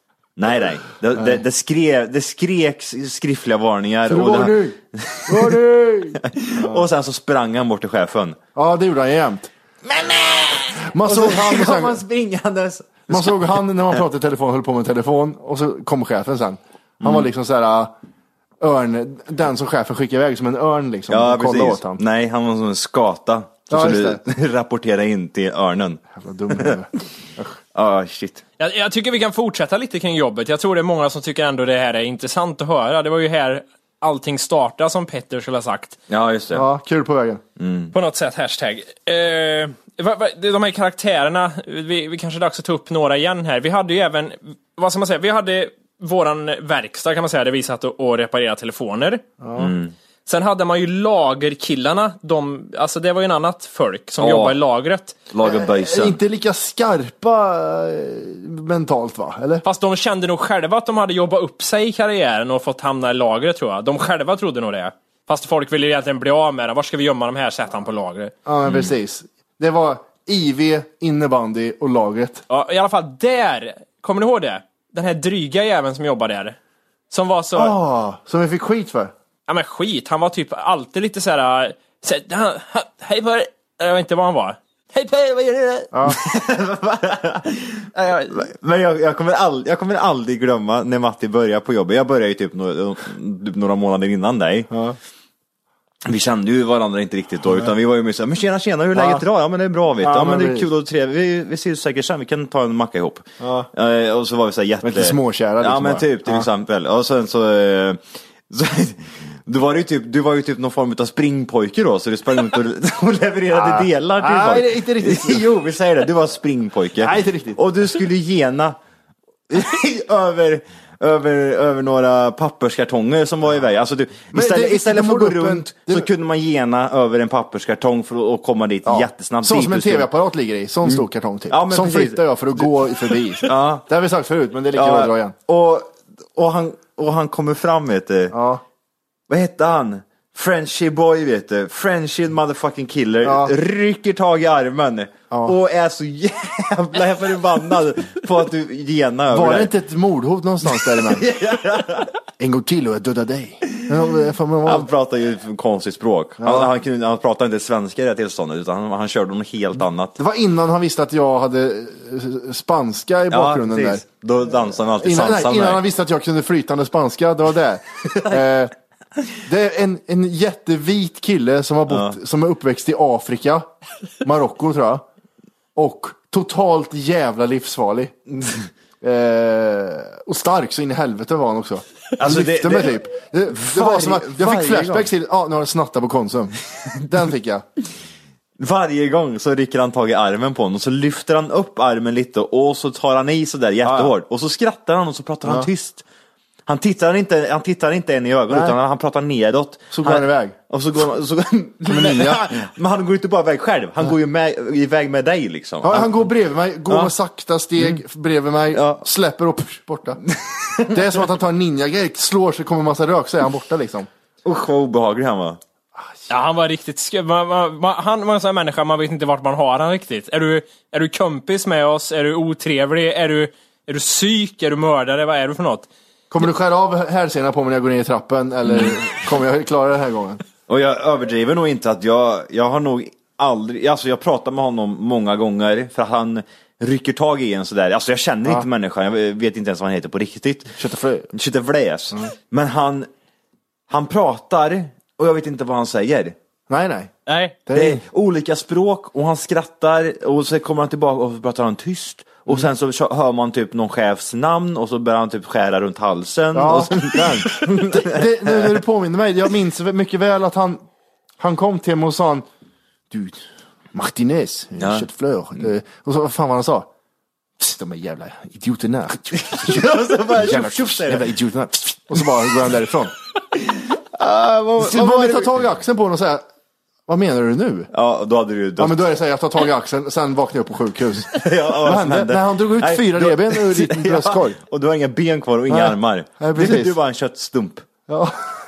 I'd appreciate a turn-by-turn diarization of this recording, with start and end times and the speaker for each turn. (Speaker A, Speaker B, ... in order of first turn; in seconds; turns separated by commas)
Speaker A: 0.3-5.6, Speaker B: 4.1-6.9, Speaker A: 6.2-8.4, Speaker B: 8.6-9.5, Speaker A: 9.8-13.6, Speaker B: 10.9-12.0, Speaker B: 13.1-17.9, Speaker A: 17.0-17.3, Speaker B: 18.6-22.0, Speaker A: 21.1-26.0, Speaker B: 23.7-24.2, Speaker B: 26.1-27.6, Speaker A: 27.7-28.4, Speaker C: 28.6-36.0, Speaker A: 36.1-36.6, Speaker B: 36.5-37.4, Speaker A: 37.6-37.9, Speaker C: 37.9-49.2, Speaker B: 49.4-49.7, Speaker A: 49.6-49.9, Speaker C: 50.2-55.1, Speaker A: 54.2-54.6, Speaker A: 55.3-56.2, Speaker B: 55.4-59.6, Speaker C: 59.6-68.3, Speaker B: 68.5-72.4, Speaker C: 72.5-76.6, Speaker C: 77.1-77.8, Speaker B: 77.5-79.1, Speaker C: 79.5-85.9, Speaker B: 85.9-86.2, Speaker A: 86.0-94.7, Speaker C: 87.9-88.4, Speaker B: 94.7-95.0, Speaker A: 96.0-118.8, Speaker B: 98.9-99.2, Speaker B: 100.0-100.7, Speaker B: 103.4-103.7, Speaker B: 104.8-106.5, Speaker B: 113.5-115.5, Speaker B: 117.0-117.6, Speaker A: 119.5-130.1, Speaker B: 124.3-126.1, Speaker B: 128.8-135.3, Speaker A: 130.8-132.7, Speaker A: 133.4-133.8, Speaker A: 134.7-138.3, Speaker B: 138.3-138.6, Speaker A: 139.3-149.7, Speaker B: 143.2-143.5, Speaker B: 149.3-151.3, Speaker A: 150.6-152.1, Speaker B: 152.4-154.9, Speaker A: 154.6-160.2, Speaker B: 156.4-156.7, Speaker B: 160.2-164.0, Speaker A: 163.3-165.8, Speaker B: 165.0-168.7, Speaker B: 169.4-173.7, Speaker A: 171.9-172.2, Speaker B: 174.2-175.0, Speaker B: 175.8-178.2, Speaker B: 179.0-187.6, Speaker A: 182.2-185.1, Speaker A: 188.6-196.0, Speaker B: 193.8-194.1, Speaker B: 195.4-195.7, Speaker A: 196.7-206.3, Speaker B: 198.5-198.8, Speaker B: 199.9-200.6, Speaker B: 201.9-202.5, Speaker B: 205.8-210.2, Speaker A: 206.9-207.1, Speaker A: 208.7-209.0, Speaker A: 210.5-211.0, Speaker B: 210.8-214.1, Speaker A: 214.4-215.6, Speaker C: 216.3-225.9, Speaker B: 226.3-230.4, Speaker A: 230.7-240.8, Speaker B: 240.8-241.3, Speaker A: 241.3-243.1, Speaker A: 243.9-246.3, Speaker B: 246.7-247.1, Speaker C: 247.3-247.5, Speaker B: 247.7-248.0, Speaker A: 247.7-258.8, Speaker B: 256.5-260.8, Speaker B: 261.4-262.4, Speaker B: 263.1-266.9, Speaker A: 264.8-265.1, Speaker B: 267.6-273.1, Speaker A: 269.5-271.3, Speaker A: 273.7-275.5, Speaker B: 274.8-276.4, Speaker B: 277.1-277.9, Speaker A: 277.9-279.0, Speaker B: 278.8-284.6, Speaker A: 281.3-287.9, Speaker B: 285.7-286.9, Speaker B: 288.1-288.4